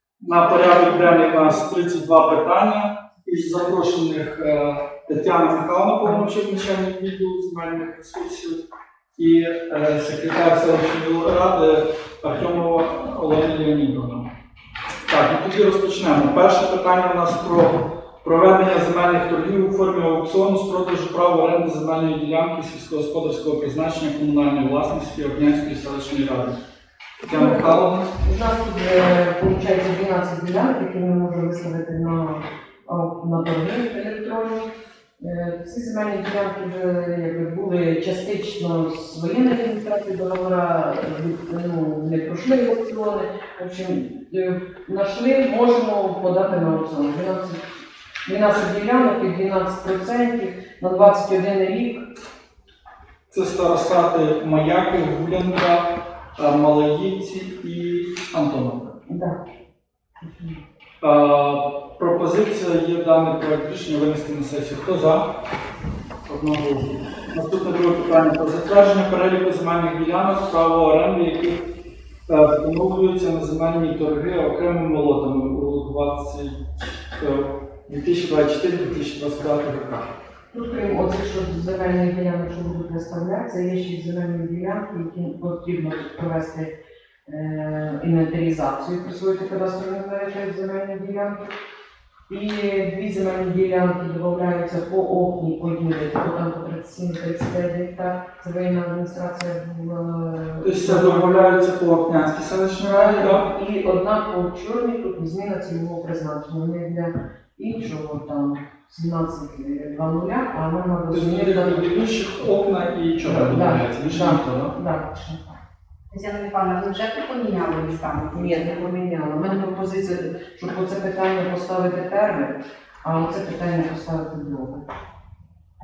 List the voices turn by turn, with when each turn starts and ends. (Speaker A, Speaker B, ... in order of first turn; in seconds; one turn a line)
Speaker A: 0.2-8.6
Speaker A: 9.2-14.3
Speaker A: 15.1-26.6
Speaker A: 27.2-28.1
Speaker B: 27.3-47.6
Speaker B: 48.3-52.0
Speaker A: 53.3-59.0
Speaker B: 59.1-59.4
Speaker B: 60.2-60.6
Speaker A: 61.0-65.2
Speaker A: 66.3-71.6
Speaker A: 72.3-76.5
Speaker A: 77.2-80.1
Speaker B: 80.5-86.7
Speaker B: 87.3-91.4
Speaker B: 92.3-101.5
Speaker A: 100.6-103.5
Speaker B: 102.8-112.1
Speaker A: 111.1-114.8
Speaker B: 113.2-115.4
Speaker C: 116.1-118.8
Speaker B: 118.3-124.8